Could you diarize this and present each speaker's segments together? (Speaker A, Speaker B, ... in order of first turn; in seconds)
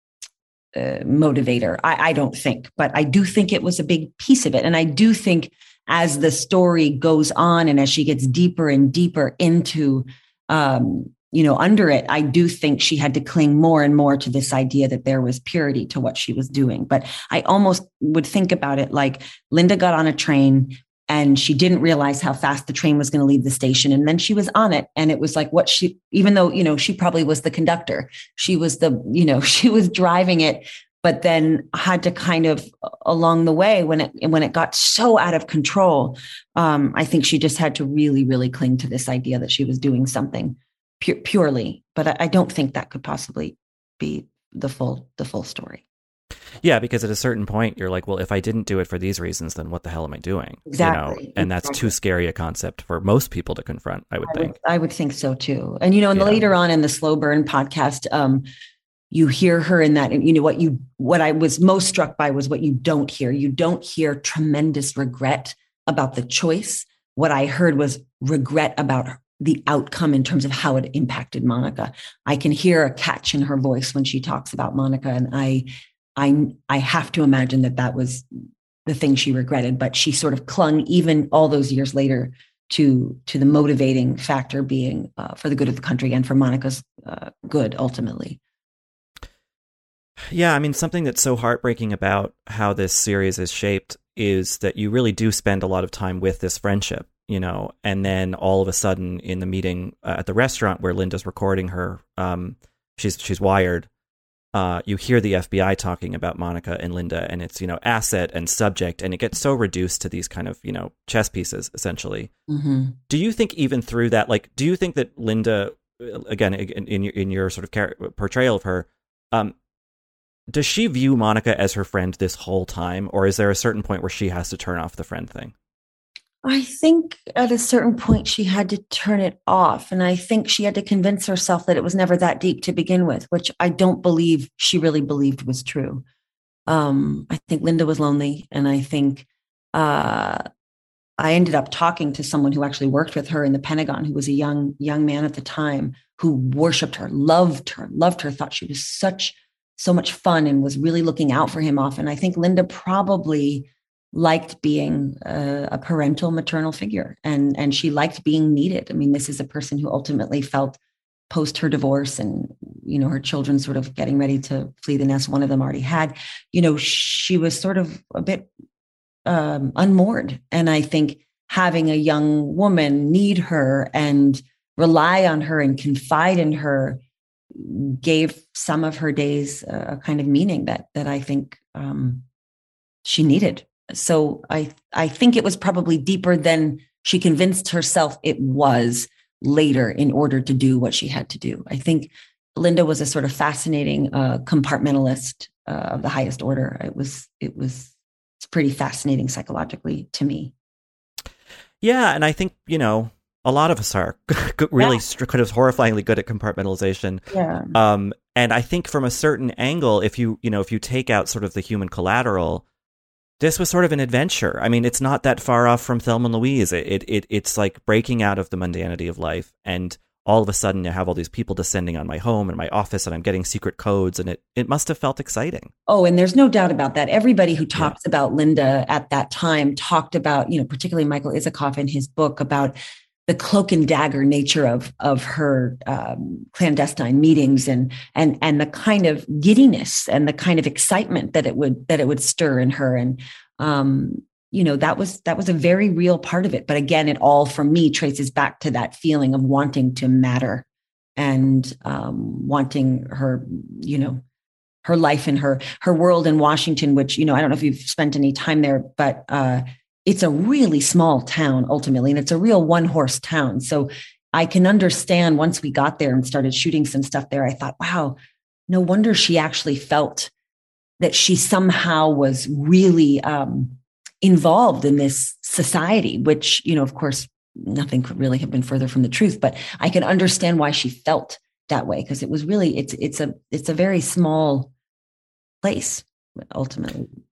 Speaker A: 0.7-45.8, 50.6-51.9, 54.2-58.5, 59.1-75.7, 76.2-78.2, 78.8-88.4, 112.5-113.0, 126.4-136.0, 136.7-140.4, 141.2-160.8, 161.3-168.5, 169.2-177.0, 177.5-182.2, 183.0-200.5, 207.3-207.7, 225.9-232.8, 233.3-250.7, 251.2-254.2, 254.8-268.2, 268.7-270.3, 271.0-284.7, 285.6-287.1
Speaker B: 46.6-54.5, 56.1-56.5, 90.3-103.9, 104.5-112.3, 113.1-119.5, 120.5-125.5, 201.8-207.2, 207.7-212.6, 213.4-225.7